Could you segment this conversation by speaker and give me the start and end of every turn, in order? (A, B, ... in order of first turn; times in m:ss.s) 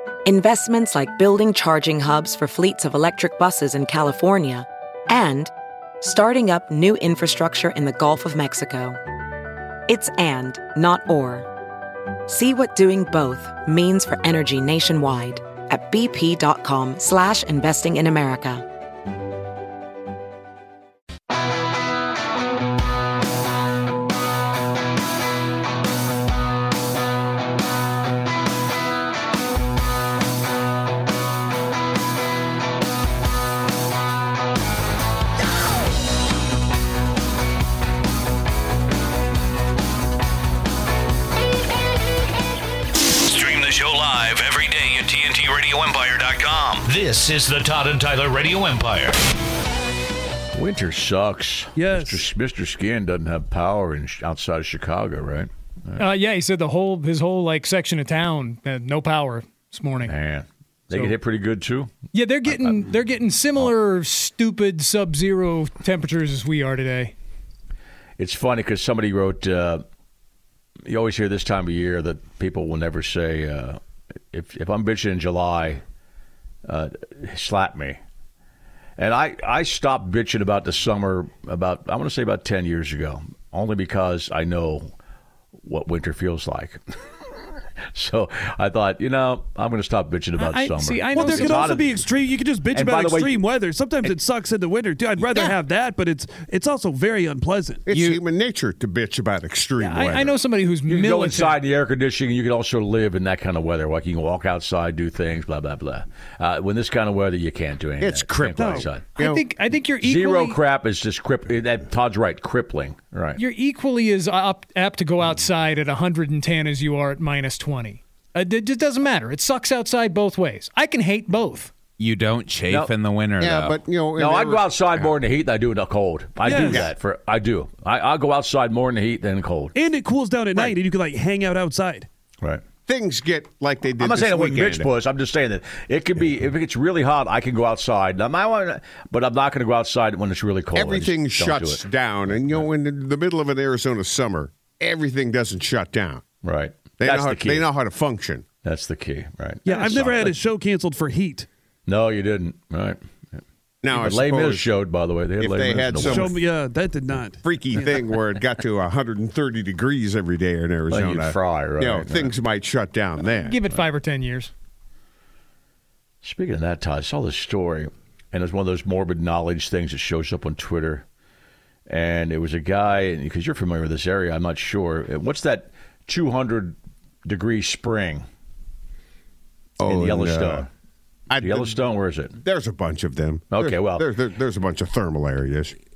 0:00.2-0:09.0 A
0:09.9-0:11.5 A
0:12.3-0:18.6 A
0:43.2-0:49.2 B
0:50.5-0:56.0 C
0:51.8-0:52.3 D
0:56.0-1:00.2 E
1:00.0-1:01.9 C
1:02.1-1:07.2 E
1:08.2-1:09.8 C
1:10.9-1:13.8 C
1:14.3-1:15.8 C
1:16.7-1:18.0 C
1:19.0-1:24.9 C
1:25.6-1:26.8 C
1:27.9-1:31.9 C
1:30.4-1:31.7 E
1:31.1-1:37.9 D
1:32.7-1:33.4 C
1:37.9-1:40.4 F
1:37.9-1:38.2 G
1:39.8-1:41.6 E
1:40.9-1:49.1 C
1:48.0-1:49.4 F
1:48.6-1:48.9 D
1:49.2-1:50.6 E
1:50.0-1:53.4 C
1:53.4-2:01.7 E
2:02.0-2:03.8 G
2:03.4-2:05.1 F
2:04.2-2:09.7 C
2:06.4-2:06.9 D
2:06.6-2:06.9 F
2:09.8-2:12.1 D
2:12.9-2:14.9 F
2:14.0-2:22.7 C
2:20.7-2:26.2 F
2:26.4-2:27.7 C
2:27.0-2:28.5 F
2:28.6-2:30.4 C
2:29.6-2:31.5 D
2:31.9-2:33.4 C
2:33.8-2:34.8 F
2:33.9-2:36.4 C
2:35.4-2:36.4 F
2:36.0-2:38.0 D
2:37.4-2:43.6 F
2:40.9-2:42.3 C
2:43.3-2:44.5 E
2:46.2-2:51.0 C
2:51.9-2:58.2 C
2:59.8-3:00.7 F
2:59.8-3:00.7 C
3:01.3-3:01.8 F
3:01.4-3:02.4 C
3:02.4-3:05.8 F
3:03.5-3:04.1 C